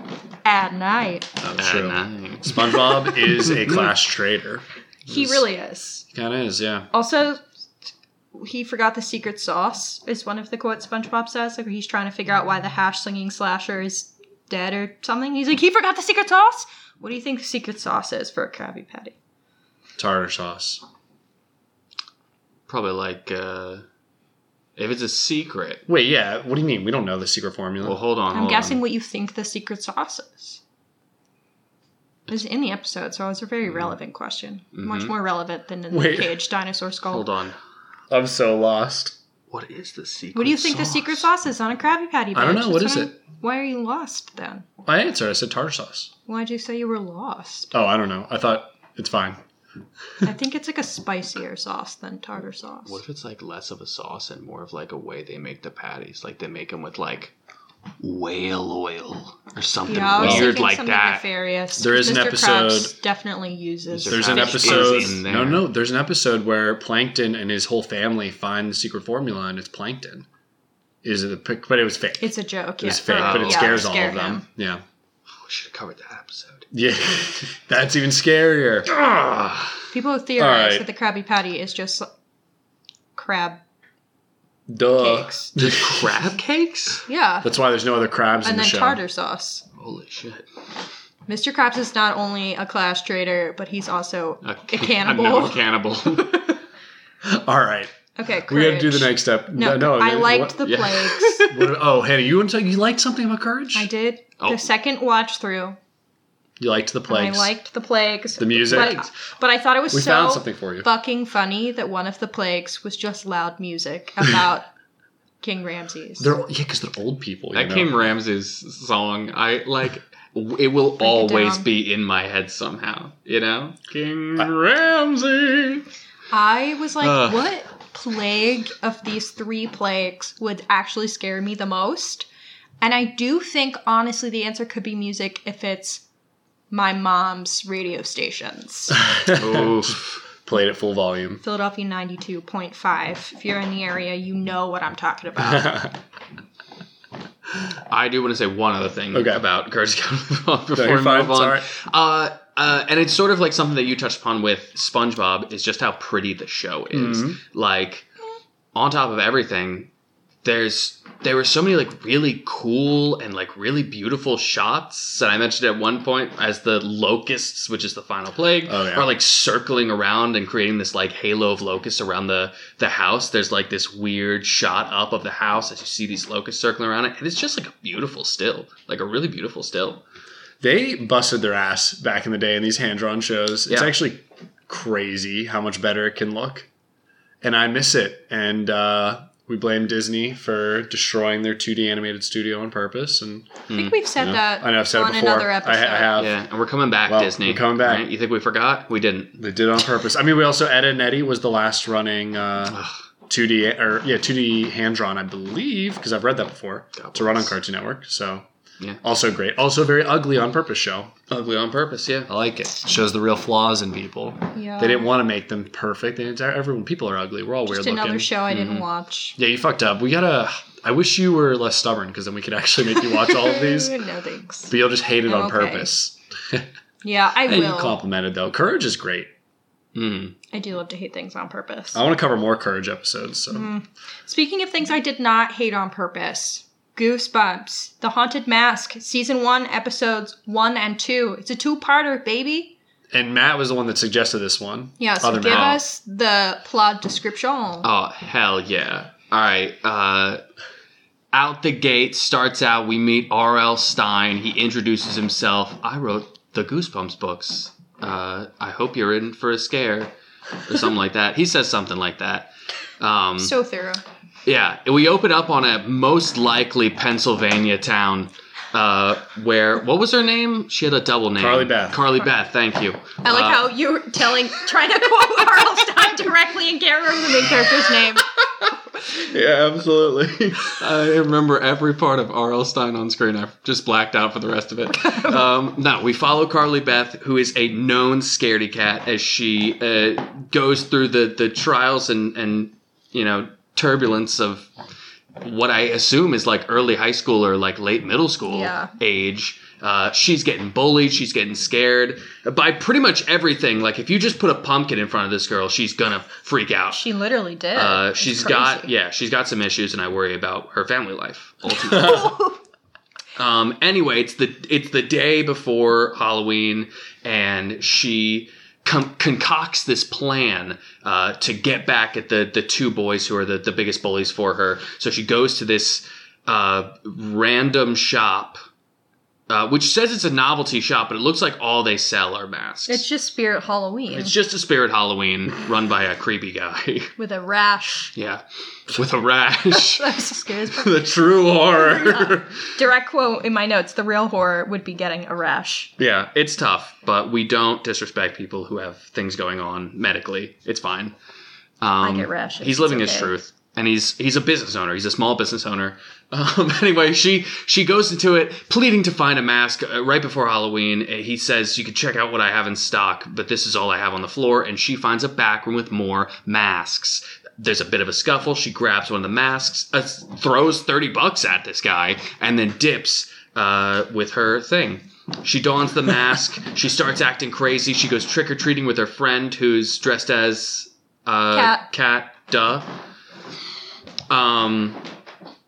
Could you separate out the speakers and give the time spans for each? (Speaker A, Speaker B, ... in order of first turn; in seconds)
Speaker A: 0.4-1.4, 5.1-6.1, 6.9-7.4, 8.3-19.1, 28.3-30.6, 32.3-37.3, 40.4-44.7, 46.3-47.7, 50.2-53.0, 59.9-65.1, 72.2-74.4, 79.9-82.1, 83.2-83.6, 85.0-85.5, 87.1-87.5, 88.4-89.7, 91.3-95.6, 98.2-101.5, 103.7-105.8, 107.1-114.7, 115.4-116.3, 121.0-121.7, 126.3-132.3, 132.8-136.0, 136.7-139.0, 141.4-145.9, 193.7-196.1, 214.5-215.1, 217.7-219.4, 222.9-224.7, 225.3-225.9, 227.0-228.0, 230.5-232.0, 233.5-242.8, 245.0-247.9, 263.4-264.0, 273.2-278.3, 285.0-285.4, 298.5-298.9, 306.9-308.9, 311.8-312.6, 332.9-334.3, 337.2-338.1, 339.7-345.9, 352.0-353.3, 381.5-381.9
Speaker B: 1.4-5.5, 6.1-6.9, 20.0-20.8, 25.9-28.0, 35.9-36.4, 38.1-39.2, 42.4-43.1, 44.9-46.1, 47.7-49.4, 60.2-60.5, 61.8-62.9, 64.1-70.3, 71.0-74.8, 76.7-78.9, 80.4-80.9, 84.7-86.3, 87.4-89.0, 97.2-97.9, 98.5-100.6, 101.5-103.9, 106.6-107.5, 108.4-109.0, 109.9-110.9, 116.2-118.0, 138.9-141.4, 145.4-145.9, 149.1-149.4, 150.7-151.7, 156.9-157.4, 168.7-169.1, 180.6-186.7, 187.4-193.6, 194.2-196.4, 197.1-198.1, 199.4-208.5, 209.0-211.1, 212.3-218.3, 219.4-223.9, 224.7-226.7, 227.5-229.3, 231.9-233.7, 243.1-245.8, 271.4-272.1
Speaker C: 1.6-3.9, 22.7-23.9, 24.8-25.8, 27.8-28.8, 34.8-35.1, 37.1-37.6, 39.5-41.3, 52.9-57.3, 58.0-61.2, 63.9-65.7, 73.1-73.9, 75.3-76.7, 78.9-79.7, 85.6-87.1, 89.8-90.5, 94.4-96.6, 100.6-101.7, 104.4-104.7, 108.7-109.1, 117.5-125.8, 127.0-127.5, 139.3-140.2, 147.9-158.1, 158.8-159.9, 160.4-180.0, 193.7-194.0, 196.2-199.4, 207.0-207.5, 211.3-212.3, 218.5-218.8, 229.9-230.4, 247.8-250.4, 251.3-260.1, 260.7-263.5, 264.5-273.7, 279.0-294.7, 295.4-307.1, 307.8-312.4, 313.4-328.6, 329.5-333.0, 334.1-337.1, 338.1-340.2, 340.8-342.5, 346.0-351.1, 351.8-382.9, 384.3-385.0